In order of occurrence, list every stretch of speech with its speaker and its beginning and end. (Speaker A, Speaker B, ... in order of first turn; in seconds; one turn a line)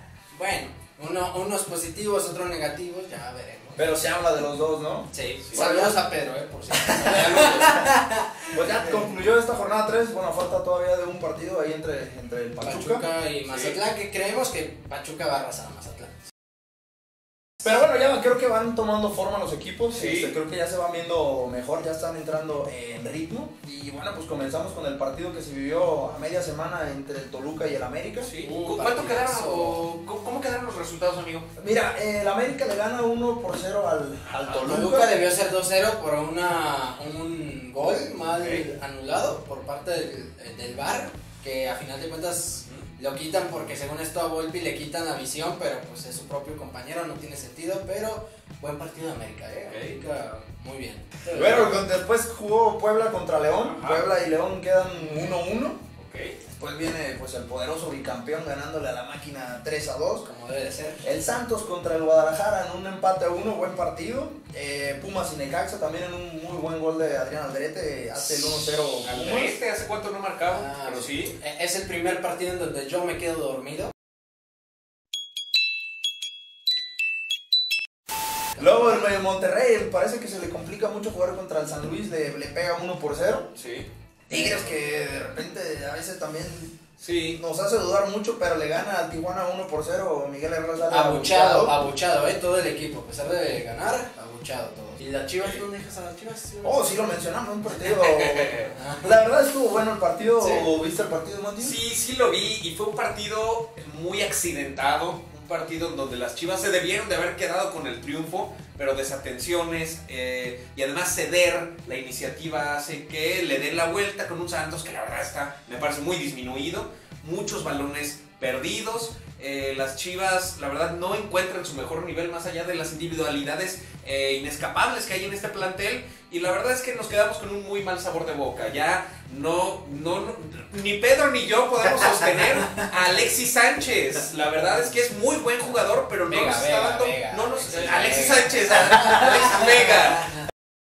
Speaker A: 0.3-3.9
Speaker B: 3.8-6.0
Speaker A: 5.1-8.5
Speaker B: 6.7-7.8
Speaker C: 7.1-7.8
Speaker B: 8.5-13.1
Speaker A: 12.6-16.1
Speaker C: 13.5-13.8
Speaker B: 17.6-28.3
Speaker C: 19.9-20.3
Speaker C: 28.2-31.5
Speaker A: 28.4-29.9
Speaker B: 31.6-35.2
Speaker A: 34.6-51.9
Speaker C: 38.4-38.7
Speaker C: 49.7-50.0
Speaker B: 51.3-55.8
Speaker C: 53.6-54.0
Speaker C: 56.0-56.4
Speaker B: 56.5-60.3
Speaker A: 60.2-61.0
Speaker B: 61.0-69.6
Speaker C: 69.0-71.4
Speaker A: 70.5-73.9
Speaker A: 78.6-79.0
Speaker B: 78.6-83.5
Speaker C: 83.5-83.9
Speaker B: 84.3-86.8
Speaker A: 84.3-84.8
Speaker C: 87.0-87.4
Speaker B: 87.3-91.8
Speaker A: 90.9-97.2
Speaker B: 96.6-101.8
Speaker C: 97.8-98.7
Speaker A: 98.7-99.2
Speaker A: 100.4-100.7
Speaker C: 101.6-140.4
Speaker A: 136.2-140.0